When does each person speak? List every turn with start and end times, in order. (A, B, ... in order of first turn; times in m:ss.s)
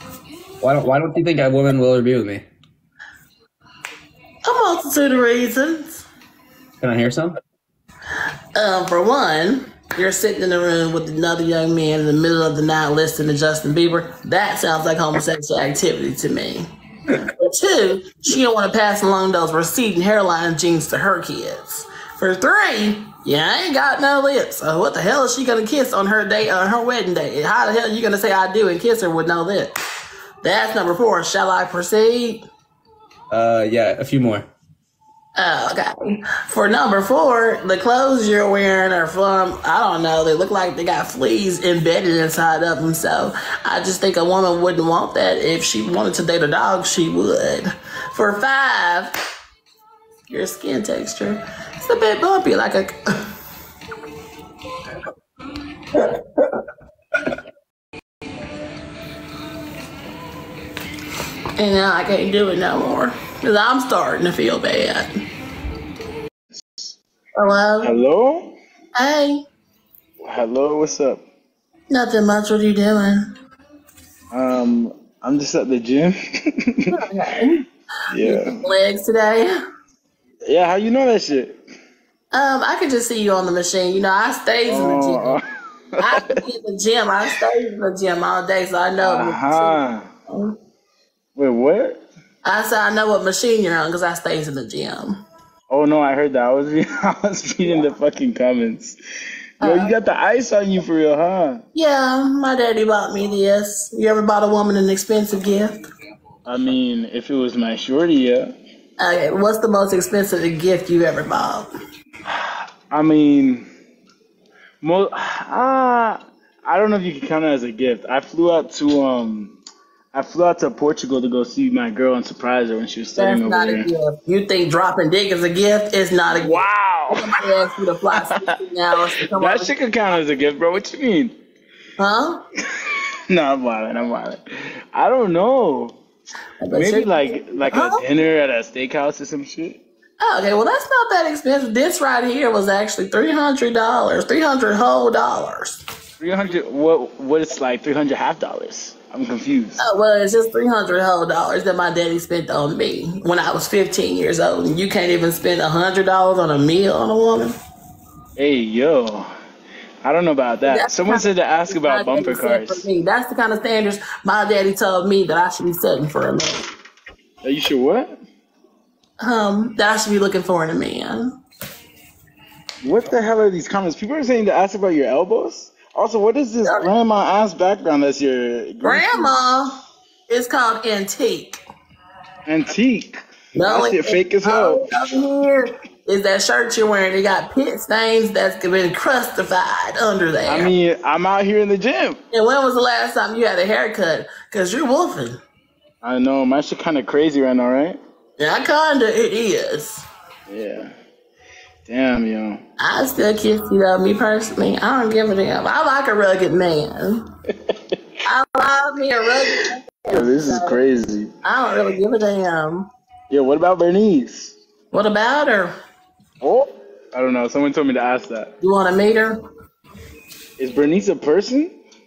0:00.6-0:02.4 A
0:04.4-0:06.0 B
0:06.8-0:07.4 A
0:08.5-0:16.7 B
0:17.2-0:29.7 B
0:30.4-0:32.4 B
0:33.3-0:34.5 A
0:35.4-0:49.1 B
0:50.3-0:53.3 B
1:01.6-1:05.1 B
1:07.4-1:07.9 B
1:07.8-1:08.6 C
1:08.9-1:09.4 B
1:10.2-1:11.2 C
1:11.9-1:13.3 B
1:14.3-1:16.9 C
1:16.9-1:17.6 B
1:18.1-1:18.6 C
1:18.2-1:19.6 B
1:20.4-1:21.6 C
1:22.3-1:25.4 B
1:24.7-1:25.4 C
1:26.0-1:26.4 C
1:26.0-1:30.6 B
1:29.0-1:30.1 C
1:31.3-1:32.0 C
1:32.4-1:35.2 B
1:35.7-1:39.0 C
1:39.6-1:39.9 B
1:39.6-1:41.6 C
1:41.7-1:45.8 B
1:46.4-1:48.5 C
1:49.0-1:51.7 B
1:52.3-1:53.7 C
1:54.8-1:59.6 C
2:00.1-2:03.9 C
2:03.2-2:09.7 B
2:06.3-2:07.4 C
2:09.3-2:11.4 C
2:12.0-2:12.4 B
2:13.3-2:14.4 C
2:14.9-2:16.0 C
2:16.6-2:18.0 B
2:16.7-2:19.8 C
2:20.2-2:25.8 B
2:26.2-2:29.8 C
2:29.8-2:37.6 B
2:38.4-2:39.3 C
2:40.0-2:42.8 C
2:40.6-2:46.7 B
2:47.4-2:48.1 C
2:49.2-2:51.3 B
2:52.8-2:59.3 C
2:58.8-2:59.8 B
3:00.3-3:01.6 B
3:02.4-3:04.9 C
3:03.5-3:10.7 B
3:10.4-3:12.2 C
3:12.3-3:15.4 B
3:16.0-3:18.0 C
3:18.4-3:20.0 B
3:20.5-3:20.9 C
3:21.8-3:22.6 C
3:22.8-3:27.2 B
3:28.2-3:30.8 B
3:30.1-3:31.3 C
3:31.4-3:32.9 B
3:33.3-3:34.5 C
3:34.9-3:35.7 B
3:36.4-3:38.5 C
3:38.6-3:39.4 B
3:40.6-3:41.7 C